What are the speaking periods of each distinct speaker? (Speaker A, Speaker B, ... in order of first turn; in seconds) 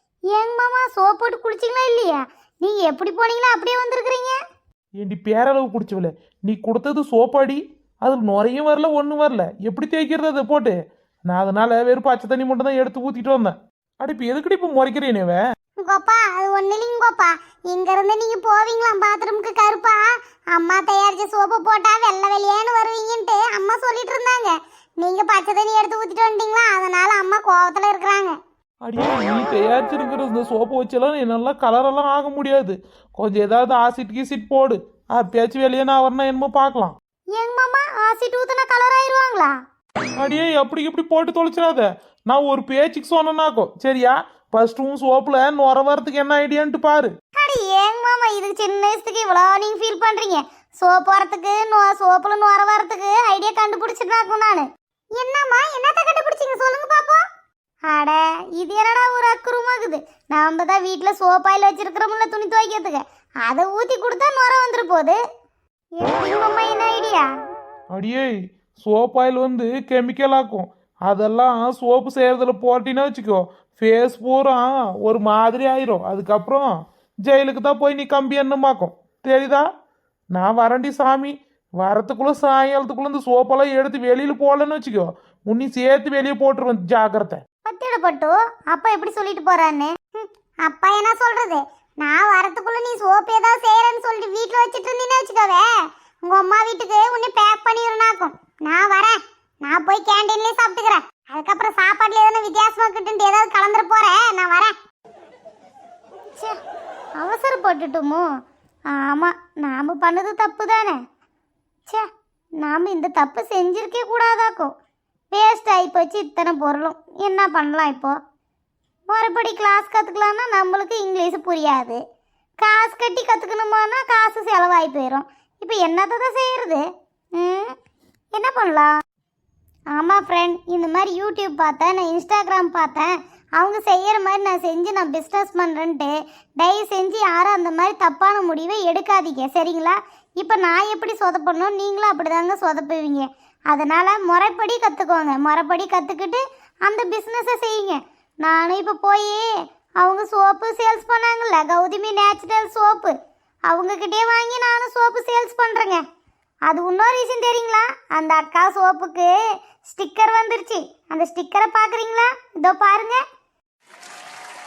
Speaker A: 0.3-4.4, 15.8-28.4, 37.4-39.6, 47.4-57.2, 57.9-65.2, 66.0-67.3, 87.7-95.7, 96.2-104.8, 107.2-108.2, 108.9-111.0, 112.6-114.7, 115.3-118.2, 119.1-122.0, 122.6-126.8, 127.4-127.7, 128.3-128.9, 129.9-149.5, 150.0-153.2, 153.7-156.0, 156.7-159.3, 159.8-163.2
Speaker B: 5.0-10.8, 11.3-15.4, 28.9-37.0, 40.2-47.1, 67.9-76.7, 77.3-79.7, 80.3-87.4